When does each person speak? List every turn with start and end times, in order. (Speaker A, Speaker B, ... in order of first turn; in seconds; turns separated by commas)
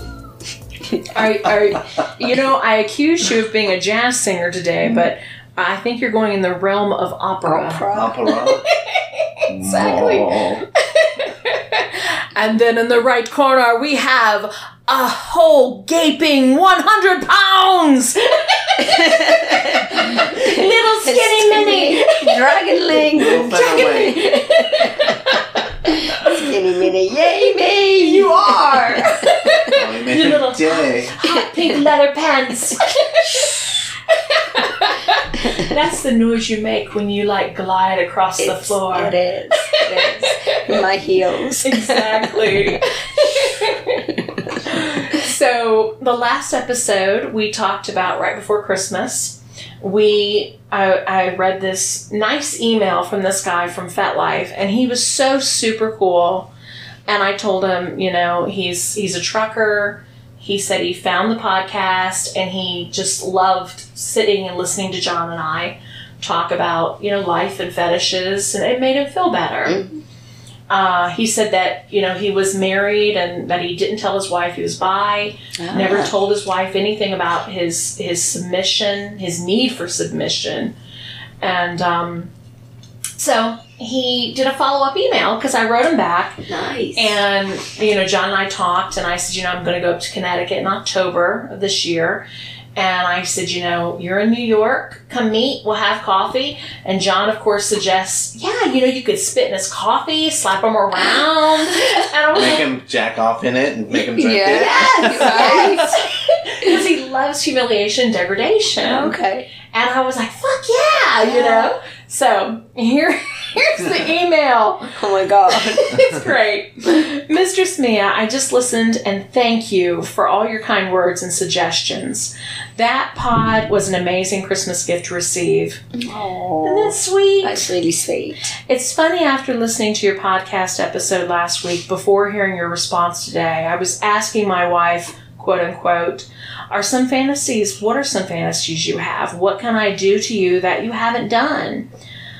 Speaker A: 1.1-10.4, Speaker B: 7.5-8.2, Speaker C: 7.9-8.7, Speaker C: 9.5-10.7, Speaker A: 11.0-22.6, Speaker B: 18.8-25.4, Speaker C: 23.1-24.3, Speaker A: 23.4-26.4, Speaker B: 25.9-29.7, Speaker A: 27.9-40.6, Speaker C: 29.7-31.2, Speaker B: 31.3-31.8, Speaker B: 33.2-33.5, Speaker B: 38.4-43.5, Speaker A: 41.6-56.5, Speaker B: 44.1-44.4, Speaker A: 57.1-69.9, Speaker A: 70.7-80.7, Speaker B: 75.6-76.1, Speaker A: 81.4-82.3, Speaker A: 83.2-86.4, Speaker B: 86.5-87.2, Speaker A: 87.0-92.2, Speaker A: 92.8-102.7, Speaker C: 102.3-105.8, Speaker B: 103.9-106.1, Speaker A: 104.6-109.2, Speaker B: 108.8-109.5, Speaker A: 109.7-114.9, Speaker B: 111.2-111.7, Speaker B: 114.9-116.0, Speaker A: 115.5-125.8, Speaker B: 126.0-128.5, Speaker A: 126.6-127.7, Speaker A: 128.7-141.9